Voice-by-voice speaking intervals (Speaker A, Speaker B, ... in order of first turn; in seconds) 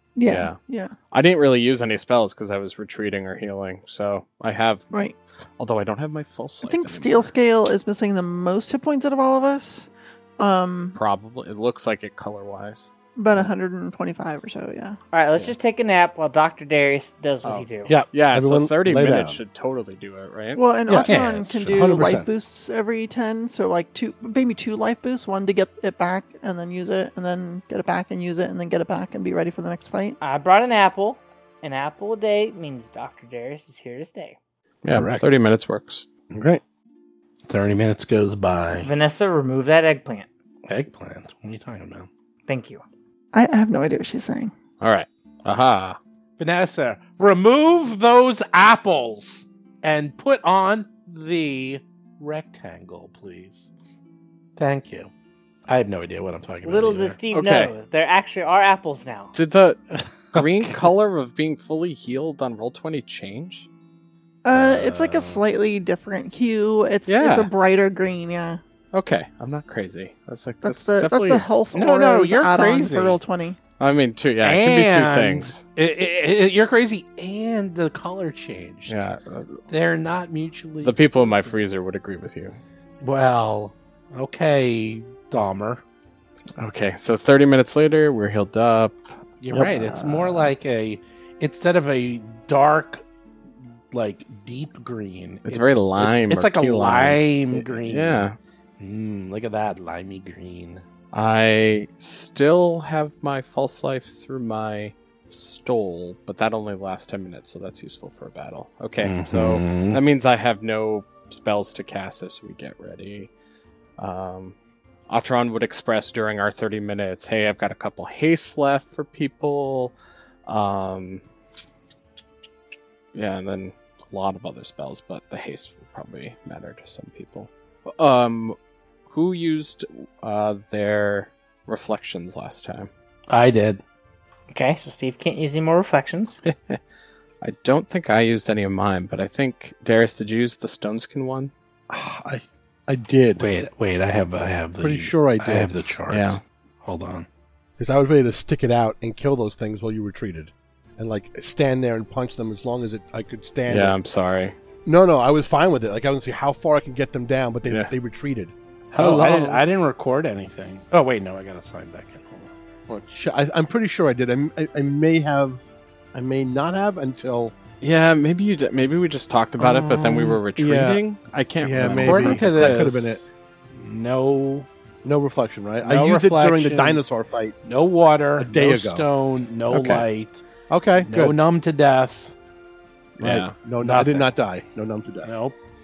Speaker A: 0.1-0.9, 6.6-11.0, 13.2-15.0, 20.6-30.2, 43.3-44.5, 64.4-68.6, 70.6-73.6
Speaker B: 0.2-0.6, 1.1-4.9, 5.6-7.3, 10.9-13.5, 17.4-20.6, 21.6-21.9, 34.8-36.0, 44.8-46.0, 57.3-57.7, 59.3-63.7, 67.1-67.5, 68.9-71.5, 73.8-75.6, 78.9-79.6, 80.8-82.6, 86.6-90.5, 95.5-98.3, 101.1-113.3, 114.0-114.5, 115.1-119.9, 120.5-121.2, 123.1-128.6, 129.1-132.9, 136.4-136.8, 137.4-141.5, 146.1-146.4, 153.7-154.5, 158.9-159.6, 167.8-172.8, 179.7-180.0, 183.2-183.5
Speaker C: 15.1-17.9, 30.2-34.4, 38.8-40.3, 42.5-42.8, 56.6-59.3, 134.5-136.4
Speaker D: 17.9-19.4, 20.9-22.3, 34.9-35.3, 36.3-36.6, 141.9-143.4, 144.8-145.9, 147.8-153.9, 154.8-158.5, 159.0-159.5, 162.9-167.5, 169.6-171.0, 171.6-173.2, 175.0-177.5, 178.4-179.1, 180.7-181.3, 183.2-185.3
Speaker E: 21.0-21.5, 37.5-38.9, 40.7-42.1, 46.4-53.7, 54.6-55.1, 55.7-57.2, 60.3-60.7, 64.5-65.4, 71.7-73.2, 74.4-79.1, 79.7-81.6, 83.0-85.8, 89.4-93.0, 93.9-98.3, 98.8-100.8, 109.0-110.0, 133.3-133.8, 143.4-147.3, 158.9-162.5, 172.0-174.7, 175.8-177.0, 177.6-180.4, 181.0-182.3, 183.8-184.3, 185.2-185.6